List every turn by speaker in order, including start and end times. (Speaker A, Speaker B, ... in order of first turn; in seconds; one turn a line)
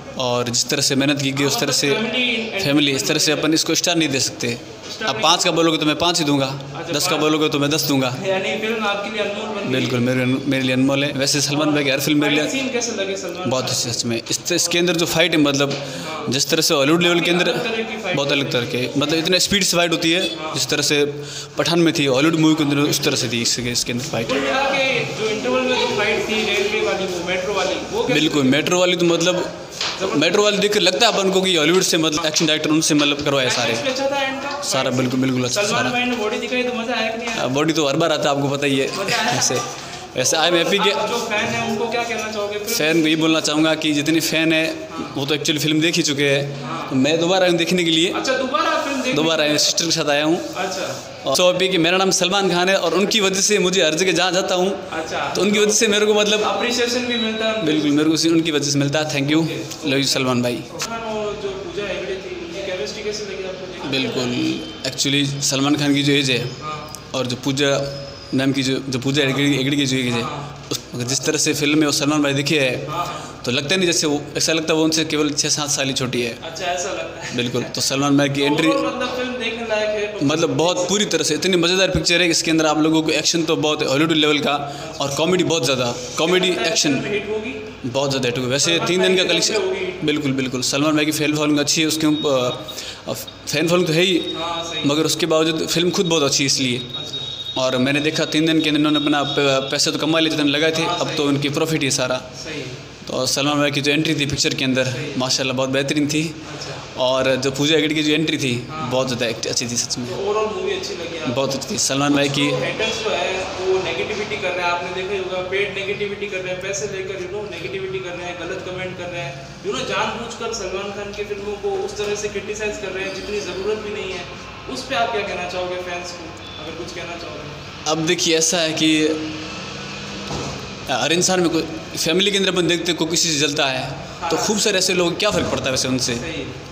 Speaker A: 0.1-8.2
Speaker B: 1.3-3.5
Speaker B: 4.9-5.5
Speaker B: 6.7-7.3
Speaker B: 8.1-10.0
Speaker A: 9.7-12.5
Speaker B: 11.5-14.0
Speaker A: 13.4-24.4
Speaker B: 16.0-16.3
Speaker B: 17.0-18.9
Speaker B: 20.3-20.6
Speaker B: 22.6-23.2
Speaker B: 24.2-28.6
Speaker A: 28.1-33.8
Speaker B: 30.0-30.6
Speaker B: 33.4-37.5
Speaker A: 34.6-36.0
Speaker A: 37.3-41.0
Speaker B: 38.9-39.6
Speaker B: 40.2-43.6
Speaker A: 42.7-48.2
Speaker B: 44.9-45.2
Speaker B: 46.6-47.0
Speaker B: 48.1-49.7
Speaker A: 49.1-50.5
Speaker B: 50.5-51.0
Speaker A: 51.2-56.5
Speaker B: 54.9-58.1
Speaker A: 57.6-60.7
Speaker B: 59.2-64.4
Speaker A: 63.8-76.4
Speaker B: 66.6-66.9
Speaker B: 69.2-70.5
Speaker B: 72.8-73.3
Speaker B: 76.4-77.7
Speaker A: 77.3-78.8
Speaker B: 78.3-81.0
Speaker A: 80.2-87.1
Speaker B: 84.8-85.2
Speaker B: 86.2-87.6
Speaker A: 87.8-96.9
Speaker B: 88.6-90.0
Speaker B: 94.3-95.0
Speaker B: 96.9-97.3
Speaker A: 97.5-102.3
Speaker B: 100.7-101.5
Speaker B: 102.4-102.8
Speaker A: 103.0-110.2
Speaker B: 104.9-105.3
Speaker B: 106.4-106.8
Speaker B: 108.7-109.1
Speaker B: 110.1-111.5
Speaker A: 111.2-112.6
Speaker B: 112.1-127.6
Speaker A: 127.8-129.3
Speaker A: 130.9-136.2
Speaker B: 134.2-134.8
Speaker B: 136.1-136.5